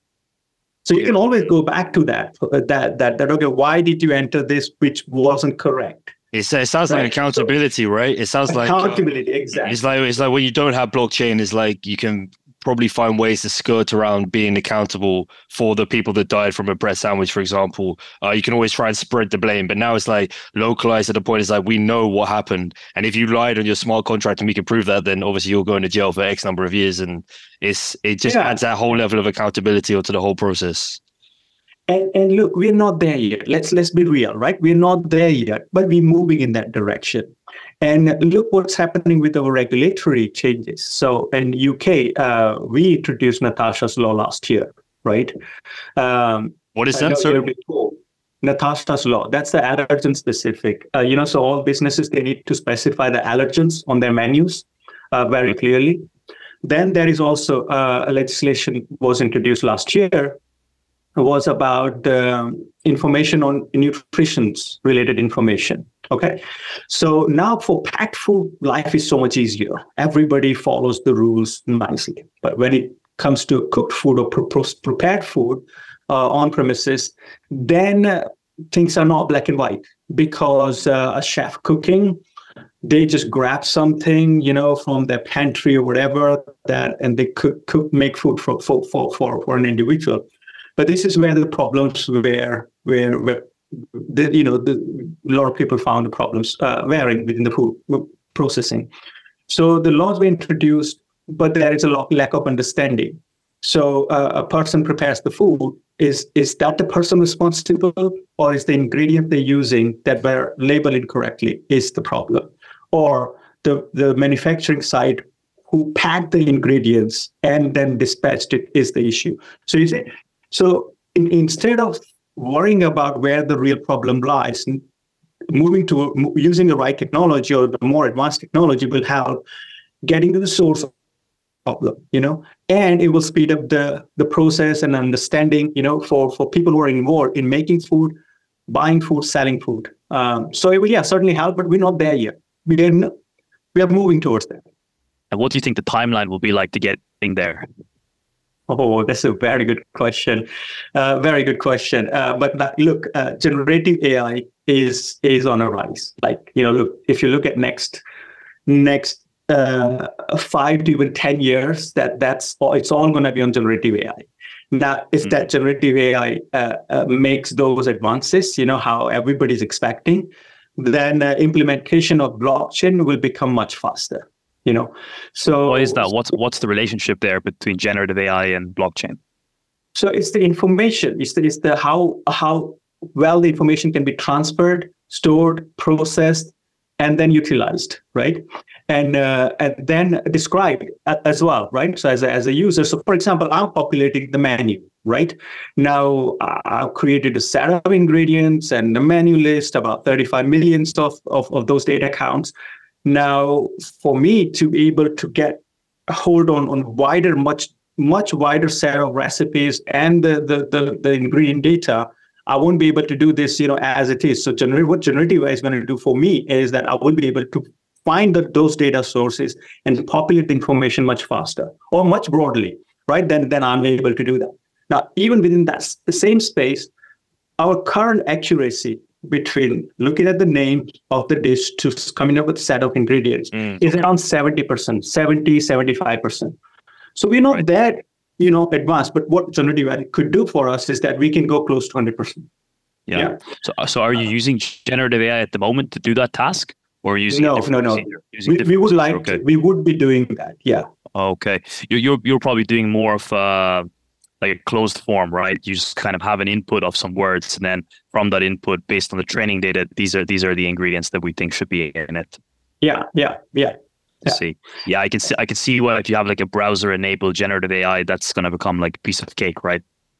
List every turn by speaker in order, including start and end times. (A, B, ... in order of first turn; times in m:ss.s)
0:00.8-0:06.1 A
0:06.3-0:09.0 B
0:06.9-0:07.5 A
0:08.5-0:09.8 A
0:09.6-0:31.0 B
0:28.2-0:28.6 A
0:31.9-0:45.3 A
0:46.0-0:56.1 A
0:46.8-0:47.4 B
0:56.6-1:00.4 A
1:01.2-1:22.2 A
1:22.8-1:30.2 A
1:30.8-1:38.9 A
1:39.5-2:04.8 A
2:05.5-2:09.4 A
2:10.0-2:10.9 A
2:11.7-2:18.2 A
2:18.7-2:23.1 A
2:23.7-2:24.6 A
2:25.3-2:27.7 C
2:28.7-2:38.0 A
2:38.7-2:56.1 A
2:55.7-2:59.2 C
3:00.0-3:22.5 A
3:23.0-3:46.9 A
3:47.6-3:56.6 A
3:57.2-4:02.5 A
4:03.1-4:09.4 C
4:03.1-4:03.4 A
4:07.3-4:10.9 A
4:11.2-4:13.9 C
4:14.4-4:22.4 C
4:22.8-4:24.4 A
4:24.3-4:29.8 C